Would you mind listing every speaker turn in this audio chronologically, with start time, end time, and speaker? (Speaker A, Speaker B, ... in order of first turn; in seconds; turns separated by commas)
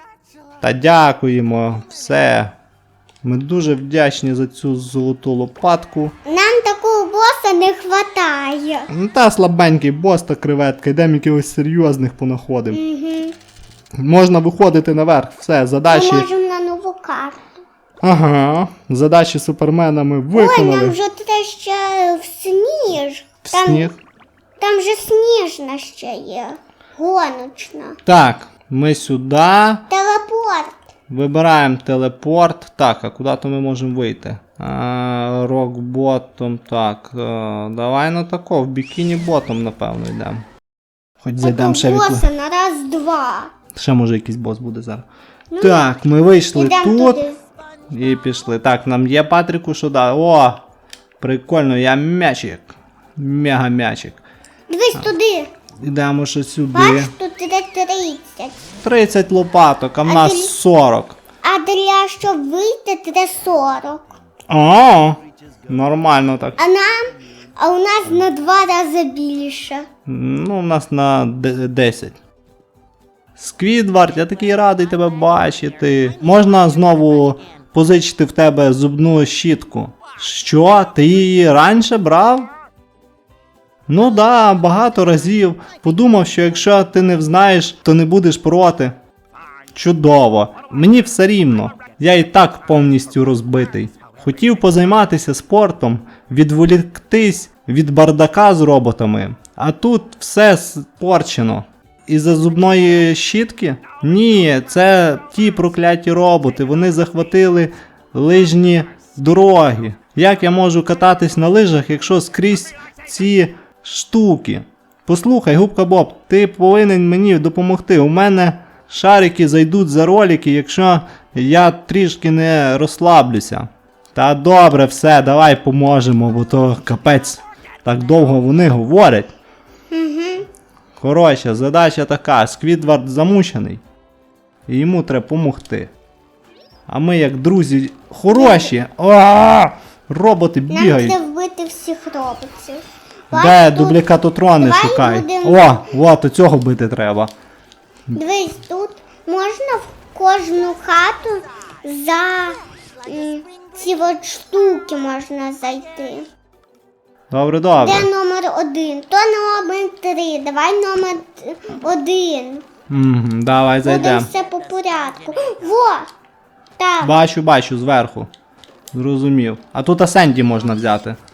Speaker A: 0.6-2.5, Speaker A: 3.2-6.1, Speaker B: 6.2-8.9, Speaker A: 8.9-12.8, Speaker B: 12.7-13.4, Speaker A: 14.0-16.3, Speaker B: 15.9-17.5, Speaker A: 18.0-21.0, Speaker B: 20.3-23.9, Speaker A: 23.4-24.0, Speaker B: 24.6-28.0, Speaker A: 28.0-29.9, Speaker B: 29.9-30.8, Speaker A: 31.1-40.5, Speaker A: 41.2-42.3, Speaker B: 41.4-43.5, Speaker A: 43.8-45.0, Speaker B: 45.5-45.9, Speaker A: 45.6-47.2, Speaker B: 46.5-47.4, Speaker A: 47.9-50.6, Speaker A: 51.2-54.2, Speaker B: 54.7-55.5, Speaker A: 55.8-57.1, Speaker B: 56.7-58.6, Speaker A: 58.8-61.2, Speaker B: 60.0-60.5, Speaker B: 61.4-64.1, Speaker A: 64.5-66.6, Speaker B: 66.6-69.9, Speaker A: 70.1-72.2, Speaker A: 73.4-82.5, Speaker A: 83.9-89.0, Speaker A: 89.7-129.3, Speaker B: 129.9-130.5, Speaker A: 131.0-133.8, Speaker A: 134.7-135.9, Speaker A: 136.9-141.2, Speaker B: 138.3-138.7, Speaker B: 140.7-144.0, Speaker A: 143.3-147.3, Speaker B: 144.6-145.9, Speaker B: 148.1-156.3, Speaker A: 157.3-158.1, Speaker B: 157.8-162.6, Speaker A: 162.9-164.3, Speaker B: 163.8-166.1, Speaker B: 166.8-167.2, Speaker A: 167.0-168.3, Speaker A: 168.9-171.2